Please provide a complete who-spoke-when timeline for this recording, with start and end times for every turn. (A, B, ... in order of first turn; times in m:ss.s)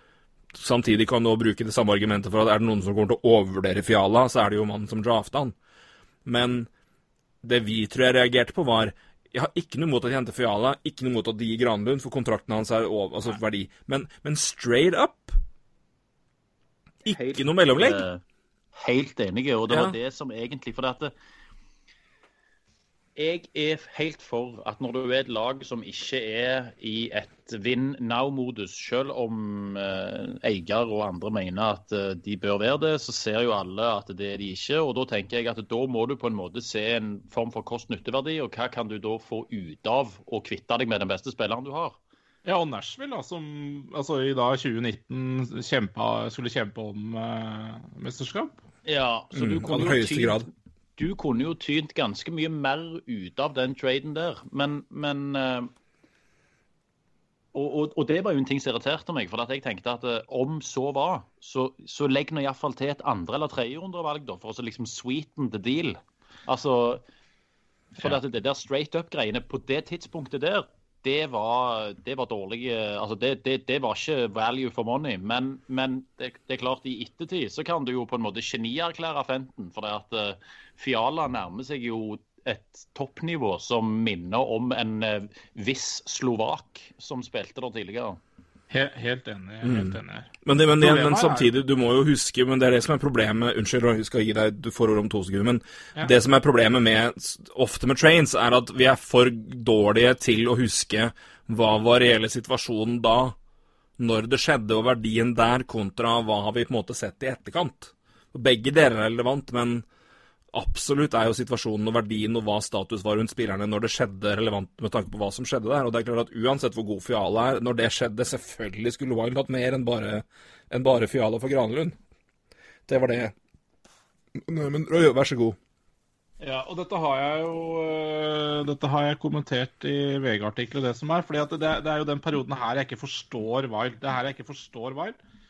0:00.5-0:05.5 A
0:06.2-0:06.7 A
0:07.4-0:15.4 A
0:17.0-0:18.1 A
0:17.1-0:18.2 B
0:18.7-0:21.1 B
0:19.7-0:20.0 A
0:23.2-0:42.0 B
0:42.4-0:48.5 C
0:48.8-0:55.7 B
0:49.3-0:50.5 A
0:57.5-1:07.0 B
1:08.0-1:28.2 B
1:28.7-1:31.5 C
1:29.6-1:43.4 A
1:44.0-1:49.8 A
1:50.5-2:02.0 A
2:02.9-2:03.3 A
2:04.4-2:05.6 A
2:06.4-2:15.2 C